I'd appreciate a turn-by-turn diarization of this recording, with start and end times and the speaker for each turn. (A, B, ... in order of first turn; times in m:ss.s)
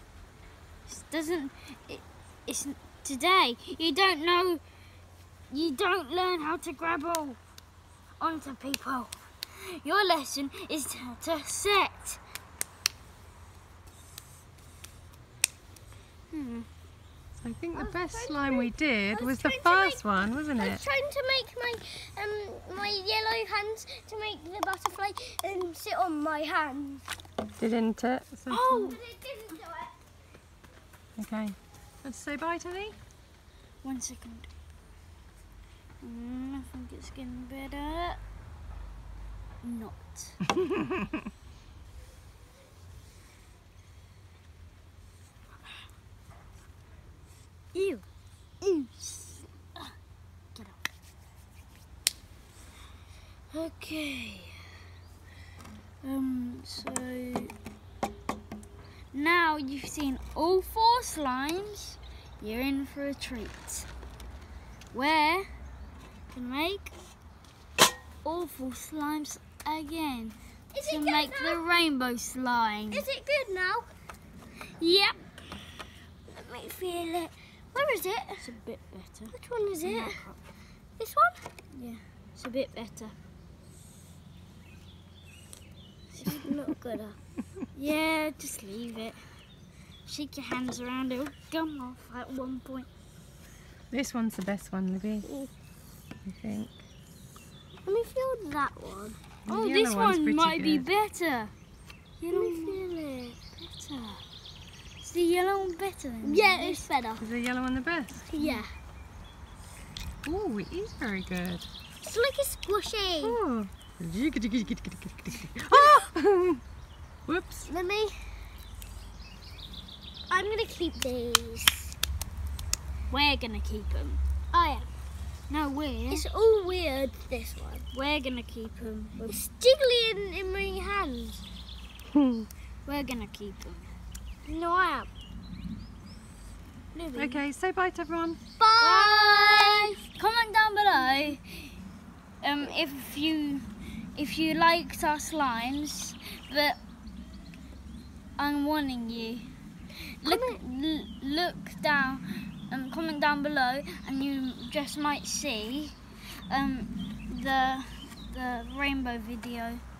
0:00.9-0:04.6 A
0:05.5-0:07.4 A
0:08.2-0:09.2 A
0:09.7-0:12.2 A
0:16.3-0:16.7 A
0:17.4-0:20.8 B
0:17.7-0:27.0 C
0:27.6-0:28.9 B
0:28.5-0:29.0 A
0:28.7-0:29.9 C
0:31.2-0:33.0 B
0:33.8-0:34.5 A
0:36.0-0:38.2 A
0:39.6-0:40.4 A
0:47.7-0:48.0 A
0:48.6-0:49.9 A
0:53.5-0:54.7 A
0:56.0-0:57.5 A
0:59.1-1:03.9 A
1:04.9-1:05.5 A
1:06.3-1:06.9 A
1:08.2-1:13.1 A
1:10.7-1:11.7 C
1:12.9-1:13.9 C
1:14.8-1:15.6 A
1:16.3-1:18.5 C
1:18.4-1:20.4 A
1:19.3-1:20.2 C
1:21.0-1:21.5 C
1:21.7-1:23.2 A
1:26.1-1:26.5 A
1:26.2-1:27.2 C
1:27.7-1:29.4 A
1:30.1-1:32.9 A
1:33.9-1:35.3 B
1:35.2-1:35.5 C
1:36.3-1:36.8 B
1:37.8-1:39.2 C
1:39.5-1:40.9 B
1:39.5-1:41.5 A
1:42.2-1:42.8 A
1:42.3-1:43.4 C
1:43.6-1:44.2 A
1:45.0-1:46.9 A
1:46.2-1:47.3 C
1:47.2-1:48.2 B
1:48.3-1:48.7 C
1:48.4-1:48.6 A
1:50.2-1:51.7 B
1:52.0-1:53.4 C
1:53.2-1:56.6 B
1:57.3-1:57.7 B
1:57.7-1:58.3 C
2:00.3-2:02.0 C
2:03.1-2:04.2 A
2:04.5-2:04.9 C
2:05.5-2:06.2 A
2:06.1-2:07.8 C
2:07.9-2:09.3 A
2:09.2-2:11.4 C
2:12.2-2:12.5 B
2:12.9-2:13.9 A
2:14.5-2:15.1 C
2:16.9-2:17.4 A
2:17.1-2:18.4 B
2:18.6-2:20.0 C
2:18.8-2:21.7 A
2:22.4-2:26.8 A
2:28.4-2:29.5 A
2:30.2-2:39.8 A
2:30.3-2:30.6 C